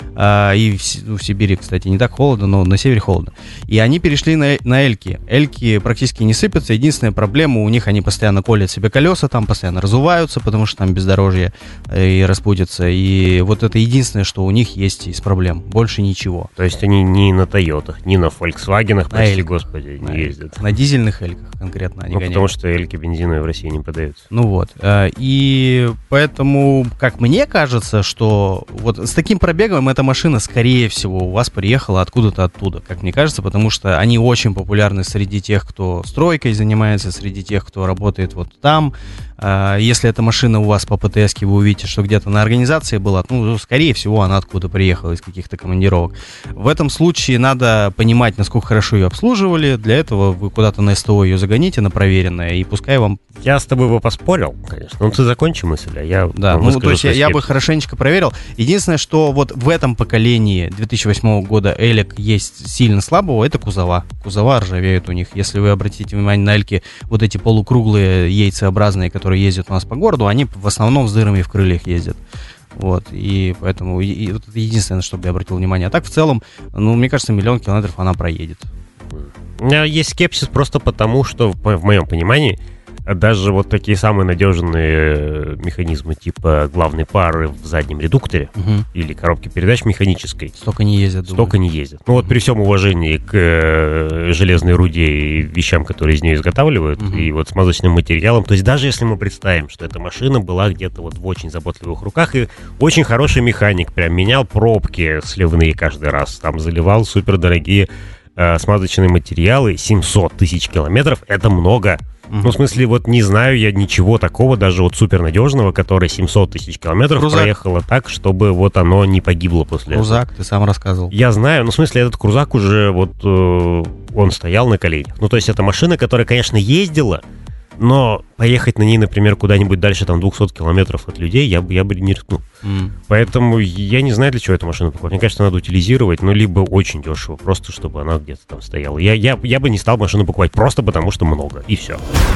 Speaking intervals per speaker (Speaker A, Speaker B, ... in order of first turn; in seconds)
Speaker A: 0.2-16.5, 19.1-22.5, 24.3-53.2, 56.4-72.2, 72.8-78.7, 88.6-88.9, 90.6-91.5, 97.0-97.3, 112.3-112.6, 117.1-117.5, 119.9-121.1, 132.6-132.9
Speaker B: 16.6-20.6, 22.1-24.2, 53.4-57.6, 79.1-90.5, 91.3-120.2, 121.1-127.2, 127.8-132.4, 133.1-142.0